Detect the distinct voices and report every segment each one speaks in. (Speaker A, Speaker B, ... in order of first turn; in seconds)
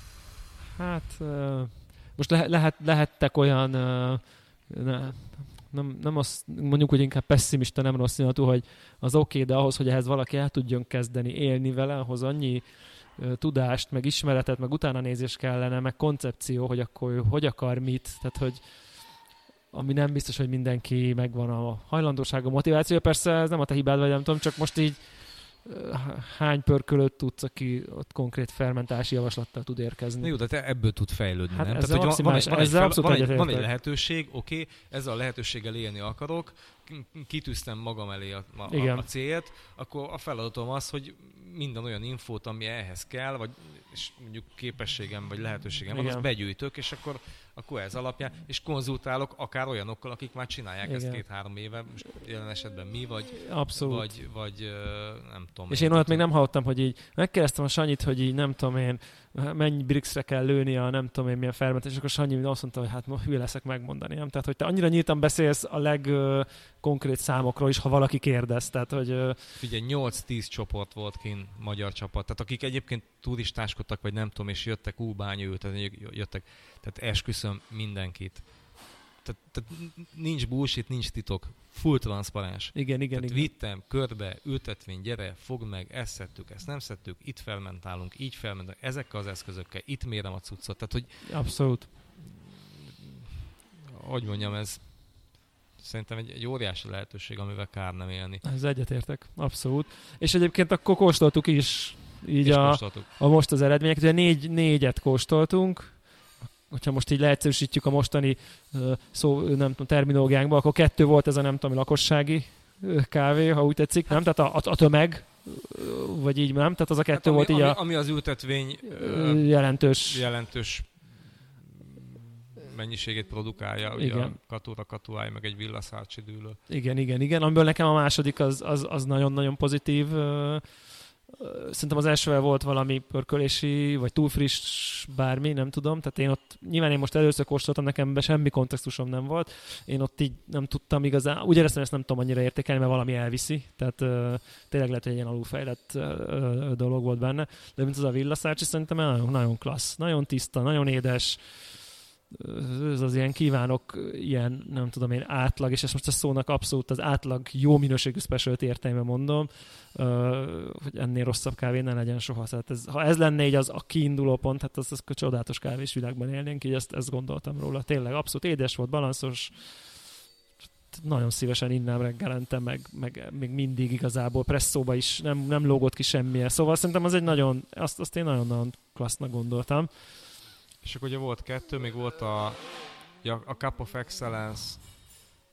Speaker A: 0.8-30.3, 31.5-33.7, 38.7-39.0, 45.9-46.3, 50.8-51.2, 53.4-54.1, 55.7-69.6, 82.7-83.5, 91.2-91.9, 98.4-118.0, 118.8-120.2, 124.0-124.4, 126.7-170.1, 170.7-180.2
Speaker B: 30.2-56.3, 69.6-98.5, 102.4-103.1, 117.1-126.6, 180.8-185.0